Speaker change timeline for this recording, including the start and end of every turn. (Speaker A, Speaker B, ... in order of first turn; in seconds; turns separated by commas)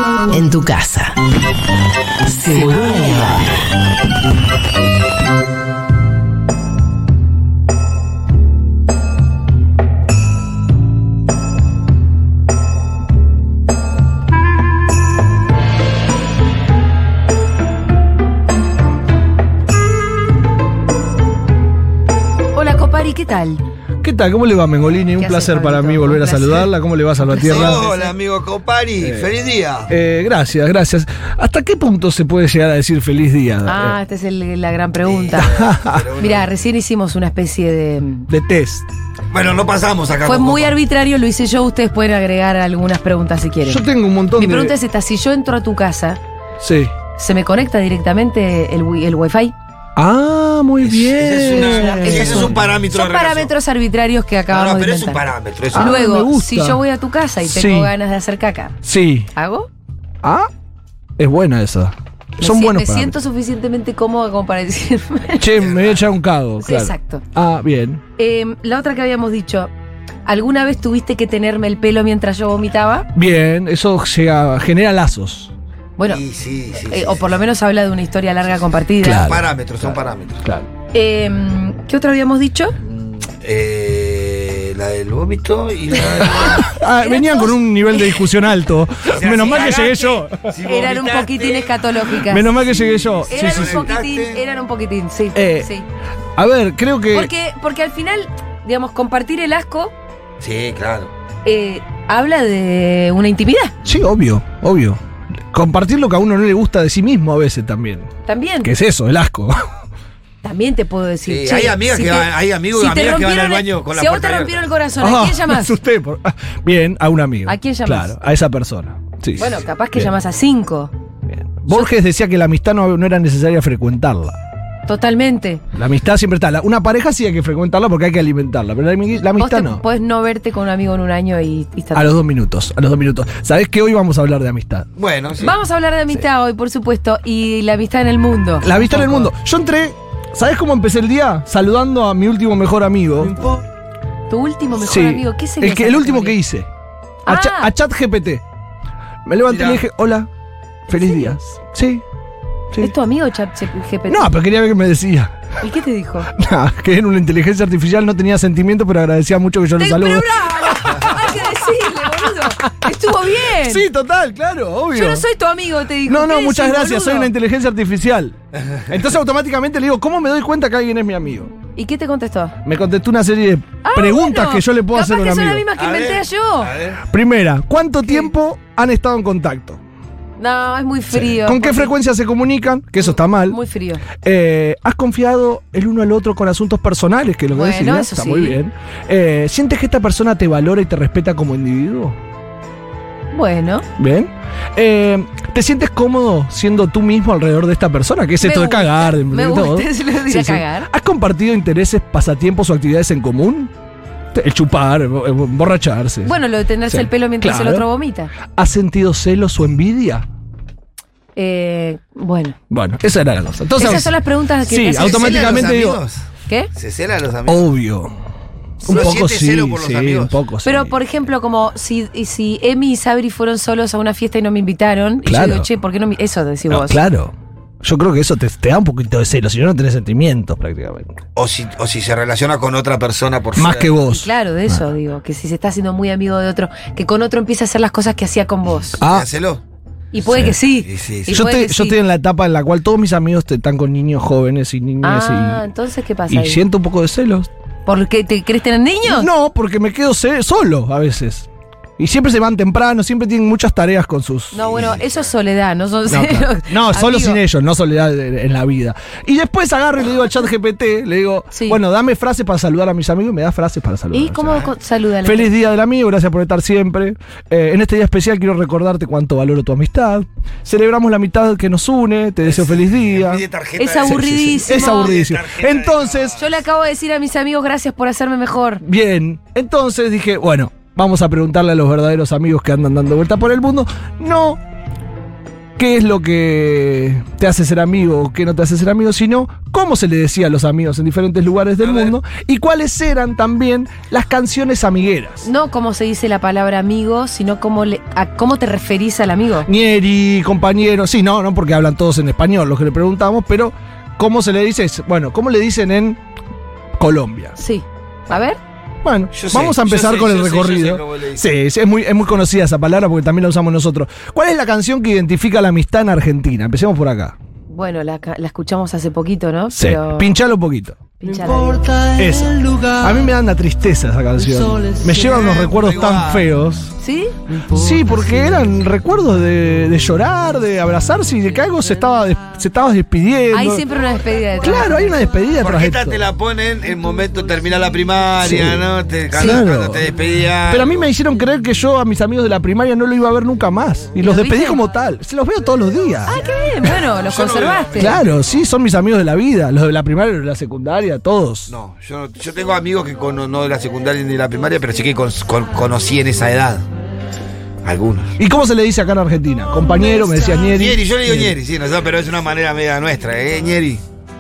Speaker A: 0.3-1.1, Speaker A: 2.3-3.6, Speaker B: 22.6-23.6, Speaker C: 24.0-27.8, Speaker B: 25.2-26.7, Speaker B: 27.2-28.1, Speaker D: 27.4-29.9, Speaker C: 29.0-29.3, Speaker C: 29.9-34.0, Speaker B: 33.7-35.5, Speaker D: 35.0-36.5, Speaker C: 35.4-36.1, Speaker B: 36.2-38.3, Speaker C: 38.3-38.9, Speaker D: 39.3-40.8, Speaker B: 40.2-46.2, Speaker C: 43.7-44.7, Speaker C: 46.6-46.9, Speaker B: 47.2-49.5, Speaker C: 50.0-52.6, Speaker D: 50.8-53.5, Speaker B: 52.0-55.2, Speaker D: 54.5-55.9, Speaker C: 55.7-56.8, Speaker B: 55.7-58.8, Speaker C: 57.4-57.9, Speaker C: 58.8-59.3, Speaker B: 59.3-59.7, Speaker C: 60.2-60.5, Speaker C: 61.2-63.2, Speaker B: 62.4-65.5, Speaker C: 65.4-68.0, Speaker D: 65.5-66.1, Speaker B: 66.6-67.2, Speaker B: 68.2-69.7, Speaker B: 70.3-73.1, Speaker C: 73.2-75.5, Speaker D: 76.1-77.3, Speaker B: 76.8-79.3, Speaker C: 79.0-80.7, Speaker D: 79.1-80.4, Speaker B: 80.9-82.8, Speaker D: 82.8-86.7, Speaker C: 86.4-90.5, Speaker B: 87.0-88.2, Speaker D: 89.1-91.7, Speaker B: 90.6-92.5, Speaker C: 92.2-93.8, Speaker D: 92.6-94.4, Speaker B: 93.3-95.9, Speaker C: 95.3-95.7, Speaker C: 96.4-97.3, Speaker B: 97.1-99.9, Speaker D: 100.4-101.1, Speaker B: 101.5-103.8, Speaker C: 103.9-105.0, Speaker C: 105.5-108.1, Speaker B: 108.3-108.7, Speaker C: 108.6-109.7, Speaker B: 110.4-115.8, Speaker D: 111.3-114.7, Speaker C: 115.0-120.1, Speaker B: 117.5-118.1, Speaker B: 119.4-120.9, Speaker C: 121.3-124.4, Speaker B: 124.9-125.6, Speaker C: 125.8-129.8, Speaker B: 129.4-132.1, Speaker C: 131.9-134.9, Speaker D: 135.0-135.6, Speaker B: 135.4-139.3, Speaker C: 138.6-143.3, Speaker B: 144.3-146.4, Speaker C: 144.8-146.7, Speaker C: 147.2-148.4, Speaker B: 147.3-147.7, Speaker C: 149.2-150.3, Speaker C: 150.9-152.0, Speaker B: 152.8-154.3, Speaker C: 154.1-155.4, Speaker B: 155.6-156.3, Speaker C: 156.4-161.4, Speaker B: 159.8-163.8, Speaker C: 163.6-165.2, Speaker B: 164.9-167.3, Speaker C: 166.1-171.5, Speaker B: 171.8-172.6, Speaker C: 172.7-175.7, Speaker B: 173.8-176.7, Speaker D: 175.8-177.0, Speaker C: 177.1-179.8, Speaker B: 180.4-181.9, Speaker C: 181.1-183.6, Speaker B: 183.0-184.0, Speaker C: 184.2-192.2, Speaker B: 187.5-188.6, Speaker B: 193.3-193.9, Speaker C: 194.0-203.7, Speaker B: 198.4-200.9, Speaker C: 204.3-206.3, Speaker B: 206.2-208.3, Speaker C: 206.9-207.9, Speaker C: 208.5-210.2, Speaker B: 211.4-212.6, Speaker C: 212.7-214.1, Speaker B: 213.8-215.7, Speaker C: 214.7-216.0, Speaker D: 215.0-216.2, Speaker D: 216.8-217.7, Speaker C: 217.5-218.2, Speaker C: 218.8-220.9, Speaker D: 218.9-220.3, Speaker B: 220.7-227.0, Speaker C: 225.2-225.7, Speaker C: 226.7-231.2, Speaker D: 231.4-233.9, Speaker C: 233.6-234.8, Speaker B: 234.1-239.0, Speaker C: 239.0-239.3, Speaker D: 239.0-239.6, Speaker B: 240.1-242.0, Speaker D: 240.4-241.4, Speaker C: 241.3-245.6, Speaker B: 245.0-246.6, Speaker C: 246.3-247.5, Speaker B: 247.9-249.3, Speaker C: 249.1-254.6, Speaker B: 254.5-257.4, Speaker D: 254.7-255.3, Speaker C: 256.1-264.7, Speaker B: 261.5-261.8, Speaker B: 264.1-265.5, Speaker C: 265.2-273.4, Speaker D: 272.4-276.4, Speaker B: 273.8-275.1, Speaker C: 274.0-276.4, Speaker B: 276.4-278.8, Speaker C: 278.8-284.6, Speaker C: 285.8-295.4, Speaker D: 291.8-292.1, Speaker B: 295.4-299.7, Speaker C: 299.6-306.2, Speaker C: 307.0-307.5, Speaker B: 307.6-308.6, Speaker C: 309.0-317.4, Speaker D: 309.3-311.4, Speaker B: 317.7-320.3, Speaker C: 319.7-321.1, Speaker B: 321.2-321.8, Speaker E: 321.2-323.3, Speaker C: 322.1-326.9, Speaker E: 324.4-325.3, Speaker D: 325.1-326.5, Speaker B: 327.0-327.4, Speaker E: 327.5-328.3, Speaker C: 327.7-333.8, Speaker B: 333.5-335.0, Speaker C: 334.6-336.2, Speaker D: 335.6-341.1, Speaker C: 338.4-340.0, Speaker C: 340.7-346.4, Speaker B: 344.2-344.8, Speaker B: 346.3-348.2, Speaker D: 347.2-348.6, Speaker C: 348.0-351.7, Speaker D: 351.7-356.8, Speaker D: 357.8-358.3, Speaker C: 358.4-361.5, Speaker B: 360.0-360.6, Speaker D: 360.7-364.0